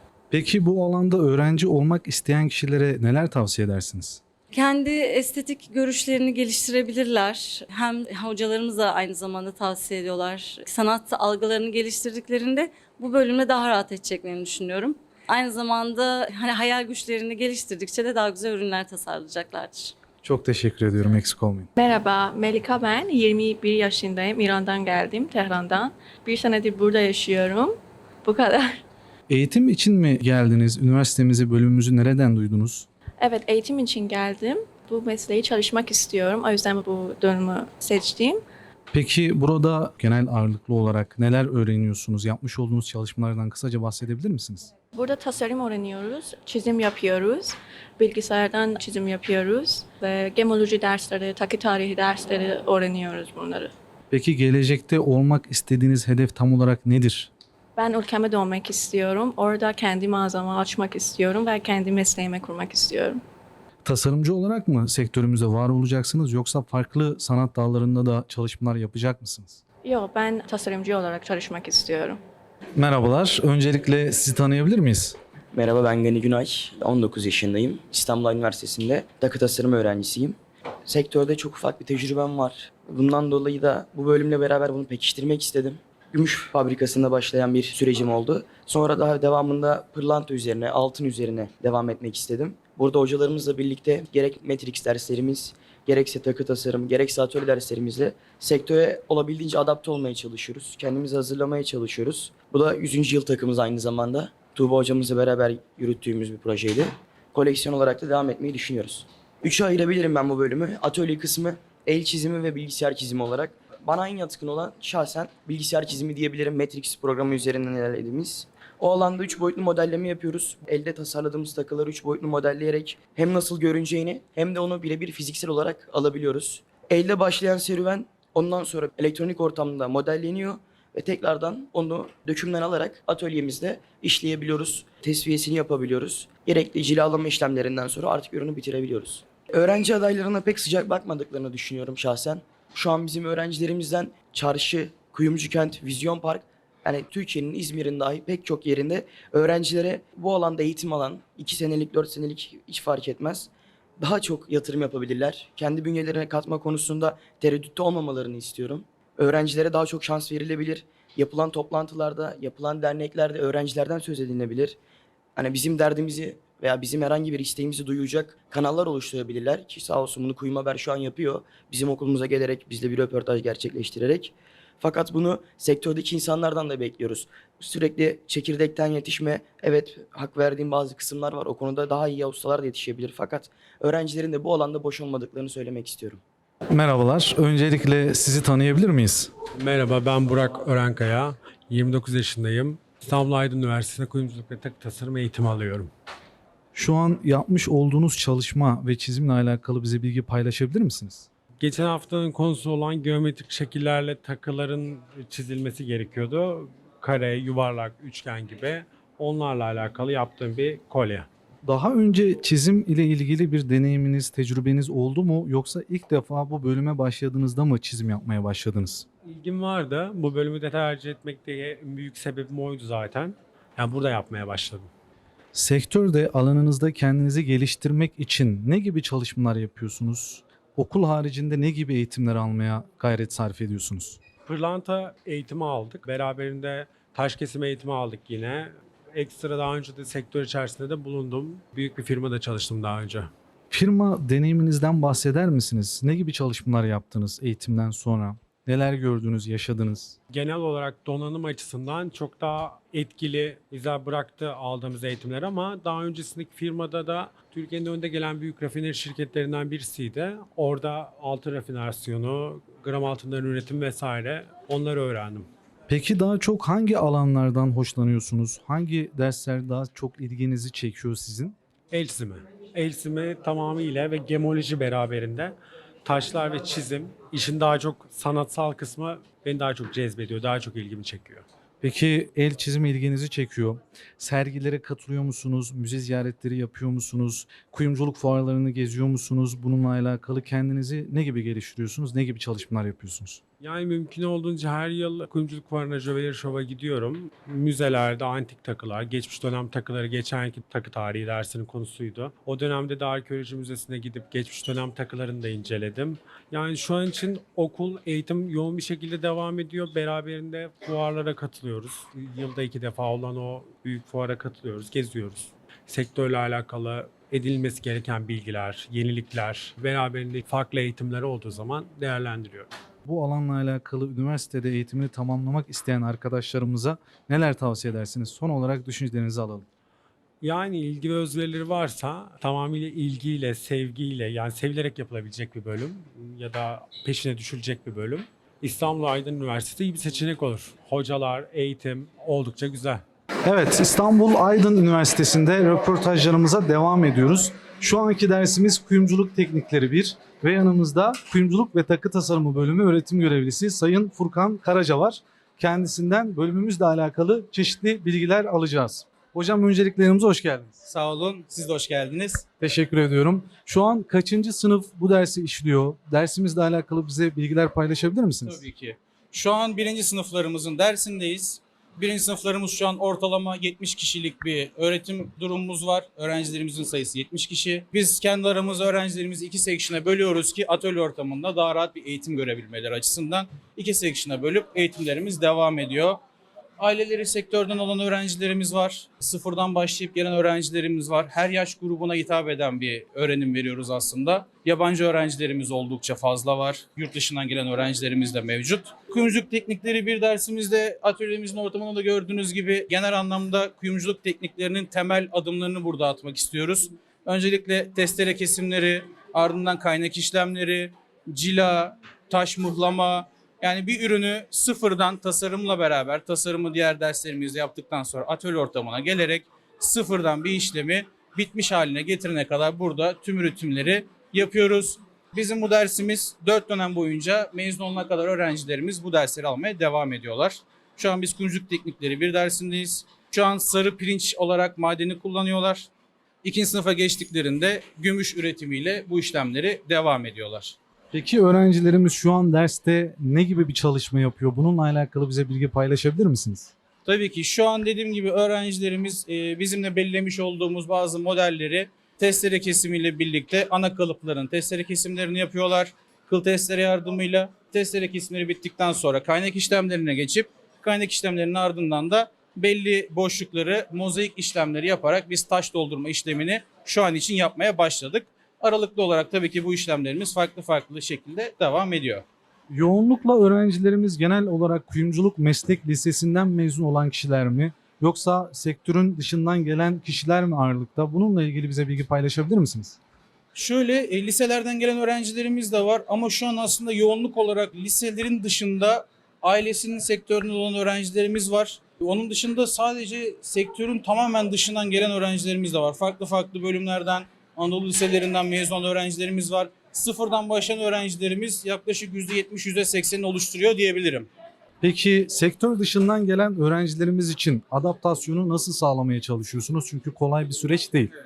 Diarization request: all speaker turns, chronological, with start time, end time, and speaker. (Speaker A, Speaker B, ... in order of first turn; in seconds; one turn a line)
Speaker A: 0.3-4.2
Speaker B: 4.5-19.9
Speaker A: 20.2-21.7
Speaker C: 21.8-28.8
Speaker A: 29.3-32.9
Speaker C: 33.2-38.4
Speaker A: 38.9-44.7
Speaker C: 44.9-53.7
Speaker A: 54.1-57.3
Speaker C: 57.8-63.2
Speaker A: 63.8-69.6
Speaker C: 69.8-72.2
Speaker A: 72.8-75.2
Speaker D: 75.5-164.8
Speaker D: 165.4-186.2
Speaker A: 186.7-189.3
Speaker E: 189.6-195.9
Speaker A: 196.7-201.3
Speaker E: 201.6-211.3
Speaker A: 211.7-219.1
Speaker E: 219.2-224.9
Speaker A: 225.5-234.2
Speaker E: 234.4-243.3
Speaker A: 243.7-250.2
Speaker E: 250.3-265.5
Speaker A: 265.9-271.6
Speaker E: 271.9-281.5
Speaker A: 281.8-293.4
Speaker E: 293.6-322.7
Speaker A: 323.0-329.7
Speaker E: 330.4-343.0
Speaker A: 343.4-360.8
Speaker F: 360.8-362.5
Speaker A: 362.6-368.6
Speaker F: 368.4-386.2
Speaker F: 386.8-435.9
Speaker F: 436.4-440.8
Speaker A: 441.1-446.7
Speaker F: 447.1-472.2
Speaker A: 472.7-483.0
Speaker F: 483.6-504.3
Speaker A: 504.8-511.1